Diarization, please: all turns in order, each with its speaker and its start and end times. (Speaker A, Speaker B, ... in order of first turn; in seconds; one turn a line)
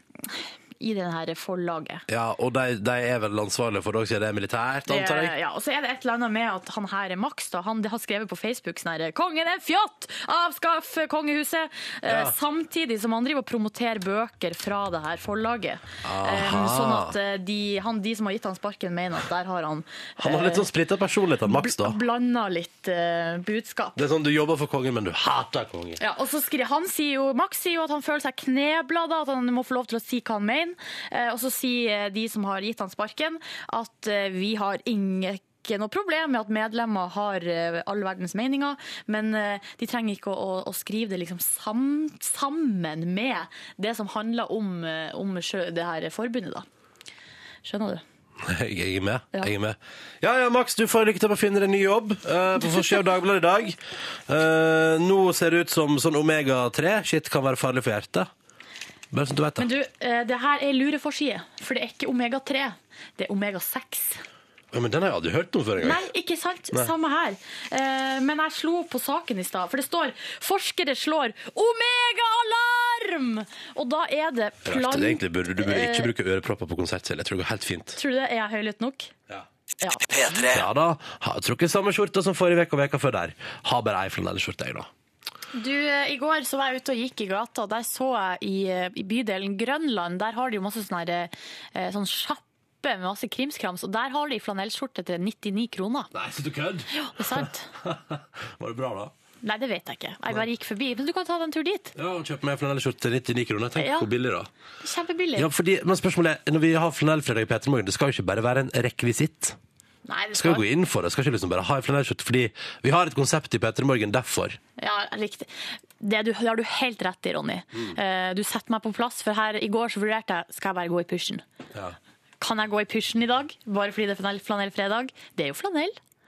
Speaker A: 0.2-2.0
Speaker B: 2.1-5.3
Speaker A: 4.9-20.7
Speaker B: 12.1-12.3
Speaker B: 16.0-17.1
Speaker B: 20.2-22.0
Speaker A: 21.4-24.0
Speaker B: 23.9-26.0
Speaker A: 26.0-46.6
Speaker A: 47.6-48.0
Speaker B: 48.4-58.3
Speaker B: 59.1-59.7
Speaker A: 59.6-64.2
Speaker B: 64.7-66.0
Speaker A: 65.8-76.1
Speaker B: 74.6-78.0
Speaker A: 78.0-79.1
Speaker A: 79.8-80.4
Speaker B: 80.3-84.9
Speaker A: 85.5-96.1
Speaker B: 96.1-99.1
Speaker A: 96.9-97.7
Speaker A: 99.4-101.9
Speaker B: 101.9-104.5
Speaker A: 103.8-104.1
Speaker A: 104.8-105.5
Speaker B: 105.3-109.6
Speaker A: 110.1-110.6
Speaker B: 110.3-114.6
Speaker A: 114.8-121.4
Speaker A: 122.4-126.0